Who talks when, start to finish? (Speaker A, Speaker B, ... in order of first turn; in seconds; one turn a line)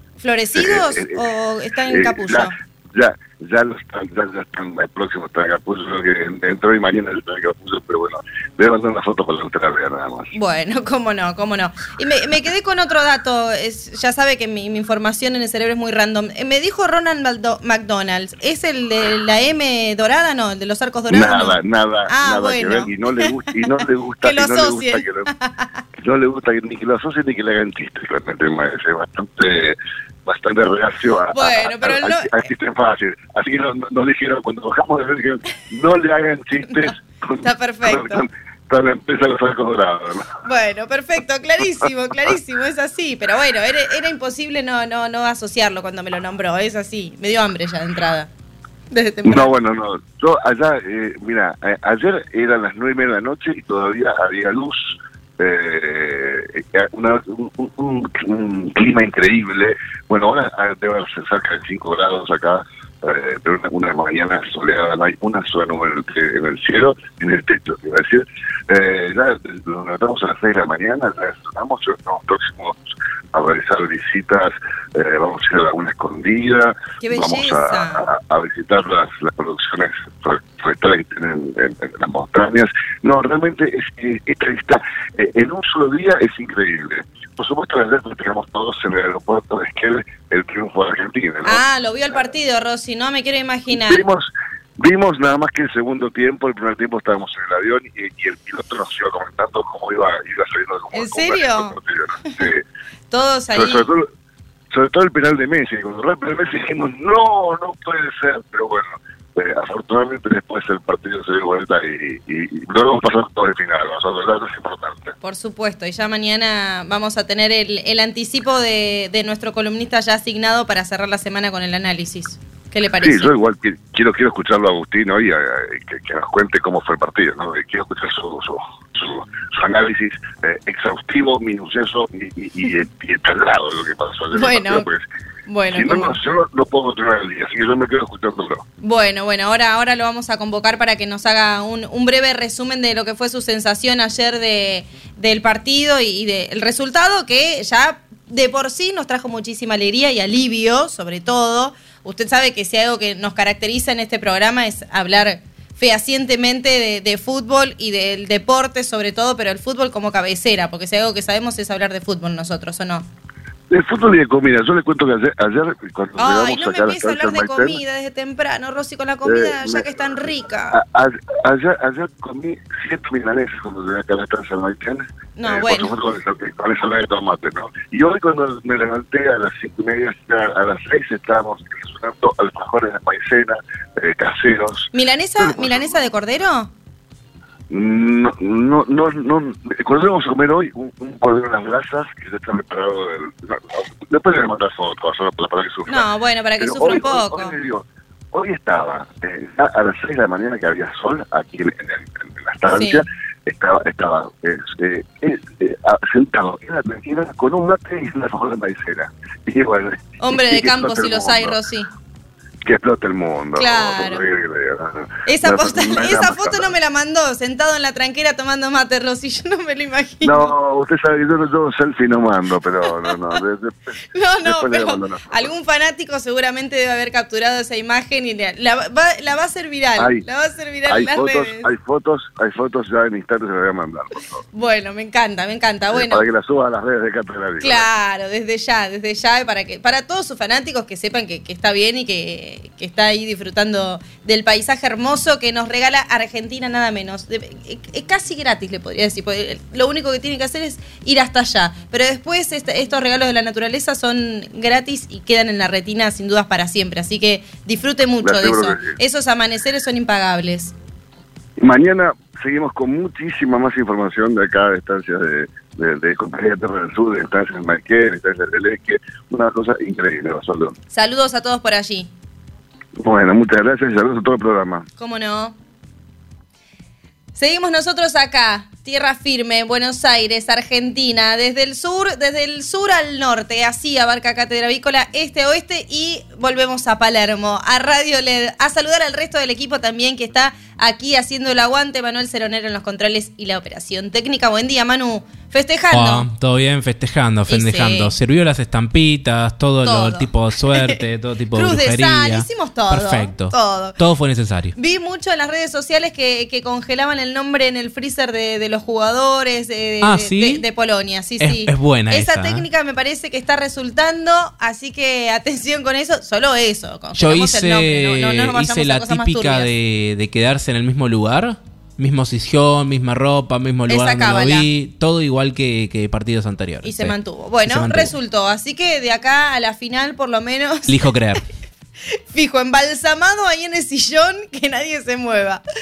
Speaker A: 0.2-2.5
Speaker B: 0.5-1.2
Speaker B: 1.9-10.3
Speaker A: 10.3-23.7
Speaker B: 21.1-25.3
Speaker A: 24.2-25.7
Speaker B: 26.0-40.4
Speaker A: 31.3-32.4
Speaker A: 37.4-38.2
Speaker A: 40.4-48.3
Speaker A: 48.9-49.5
Speaker B: 49.2-72.8
Speaker B: 73.3-91.6
Speaker A: 77.0-78.0
Speaker A: 91.4-94.0
Speaker B: 93.7-102.6
Speaker A: 100.9-101.8
Speaker A: 103.1-103.9
Speaker B: 103.5-104.1
Speaker B: 104.7-115.1
Speaker A: 115.2-123.3
Speaker B: 123.0-135.0
Speaker A: 134.3-134.9
Speaker A: 135.5-136.2
Speaker B: 135.7-138.6
Speaker A: 138.8-163.1
Speaker B: 163.7-167.8
Speaker A: 166.2-170.8
Speaker B: 169.2-169.9
Speaker B: 170.7-186.0
Speaker A: 175.3-175.9
Speaker A: 184.9-186.7
Speaker B: 187.7-196.0
Speaker A: 195.9-197.5
Speaker B: 196.6-211.6
Speaker A: 202.7-203.0
Speaker A: 210.2-211.9
Speaker B: 212.6-216.7
Speaker A: 213.6-214.2
Speaker A: 215.2-220.5
Speaker B: 220.2-225.5
Speaker A: 223.0-223.4
Speaker A: 224.1-231.7
Speaker B: 230.0-230.2
Speaker B: 230.8-234.4
Speaker A: 234.5-236.2
Speaker B: 235.9-237.9
Speaker A: 237.6-260.7
Speaker B: 258.2-259.0
Speaker B: 261.6-270.8
Speaker A: 270.9-272.1
Speaker B: 273.0-274.9
Speaker A: 275.0-275.6
Speaker A: 277.4-296.3
Speaker C: 295.9-304.7
Speaker A: 297.5-298.1
Speaker A: 299.8-301.0
Speaker A: 301.5-304.0
Speaker A: 304.8-319.7
Speaker C: 310.0-310.6
Speaker C: 311.4-312.6
Speaker C: 317.1-328.1
Speaker A: 323.9-324.7
Speaker A: 326.8-331.0
Speaker C: 330.9-331.4
Speaker A: 332.3-335.6